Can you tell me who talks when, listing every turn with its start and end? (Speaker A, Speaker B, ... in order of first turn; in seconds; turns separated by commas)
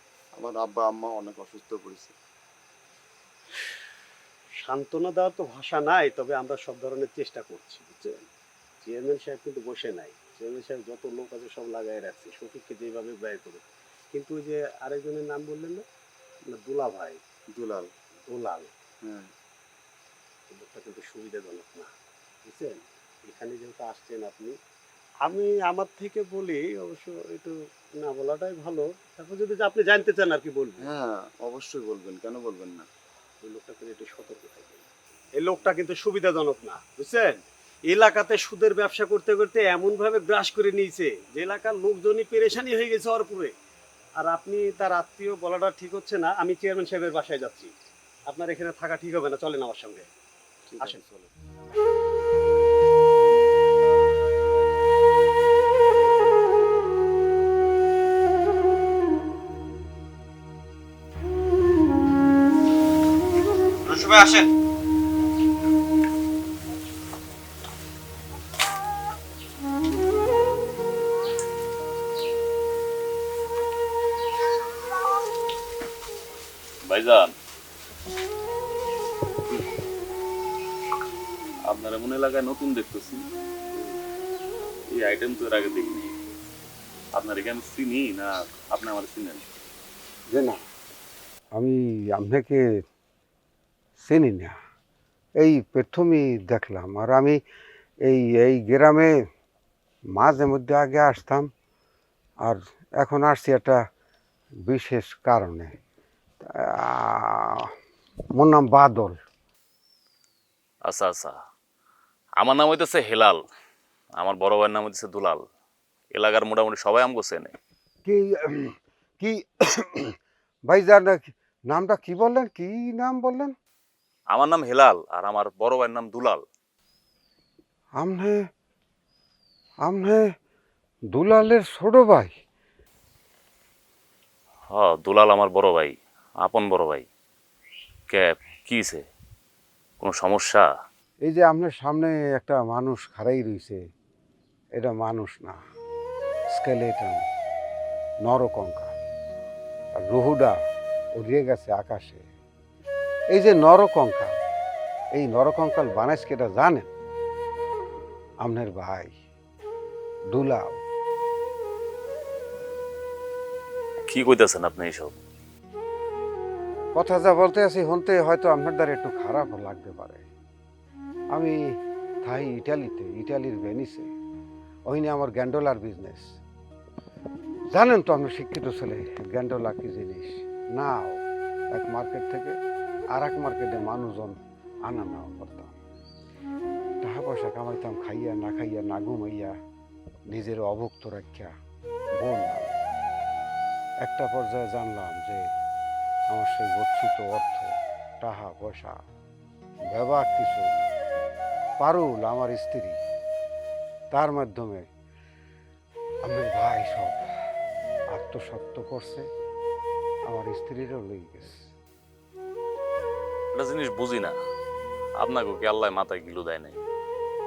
Speaker A: 0.4-2.1, Speaker B: 4.6-8.2, Speaker B: 8.8-15.8, Speaker B: 16.5-17.2, Speaker A: 17.5-17.9, Speaker B: 18.3-18.7, Speaker B: 20.5-21.9, Speaker B: 22.4-24.5, Speaker B: 25.2-30.9, Speaker A: 30.8-32.8, Speaker B: 33.4-43.5, Speaker B: 44.2-47.7, Speaker B: 48.3-50.0, Speaker A: 50.7-51.2, Speaker B: 50.8-51.0, Speaker C: 76.9-77.3, Speaker C: 81.7-83.2, Speaker C: 84.9-86.1, Speaker C: 87.1-89.4, Speaker D: 90.3-90.6, Speaker D: 91.5-92.6, Speaker D: 94.0-94.5, Speaker D: 95.4-97.4, Speaker D: 98.1-99.1, Speaker D: 100.2-101.5, Speaker D: 102.5-103.8, Speaker D: 104.7-105.7, Speaker D: 106.8-107.7, Speaker D: 108.3-109.2, Speaker C: 110.8-111.3, Speaker C: 112.4-113.4, Speaker C: 114.2-115.4, Speaker C: 116.1-117.5, Speaker D: 118.0-120.1, Speaker D: 120.7-123.5, Speaker C: 124.3-126.4, Speaker D: 128.0-128.4, Speaker D: 129.8-130.3, Speaker D: 131.1-132.3, Speaker C: 134.7-137.1, Speaker C: 138.1-139.0, Speaker C: 140.0-140.6, Speaker D: 141.2-143.8, Speaker D: 144.8-145.6, Speaker D: 146.5-147.2, Speaker D: 148.2-148.9, Speaker D: 150.0-150.6, Speaker D: 151.2-152.2, Speaker D: 153.3-154.3, Speaker D: 155.2-156.9, Speaker D: 158.4-159.1, Speaker D: 160.3-160.8, Speaker C: 164.1-165.2, Speaker D: 166.9-170.2, Speaker D: 172.2-174.1, Speaker D: 174.9-176.3, Speaker D: 177.7-181.2, Speaker D: 181.7-182.6, Speaker D: 183.2-184.3, Speaker D: 184.9-185.7, Speaker D: 187.0-189.5, Speaker D: 190.3-191.5, Speaker D: 192.2-192.8, Speaker D: 194.0-195.5, Speaker D: 196.3-197.7, Speaker D: 198.2-199.0, Speaker D: 199.9-200.7, Speaker D: 201.8-203.0, Speaker D: 204.1-204.8, Speaker D: 206.2-207.2, Speaker D: 208.1-209.2, Speaker D: 210.3-211.5, Speaker C: 213.5-214.3, Speaker C: 215.2-216.8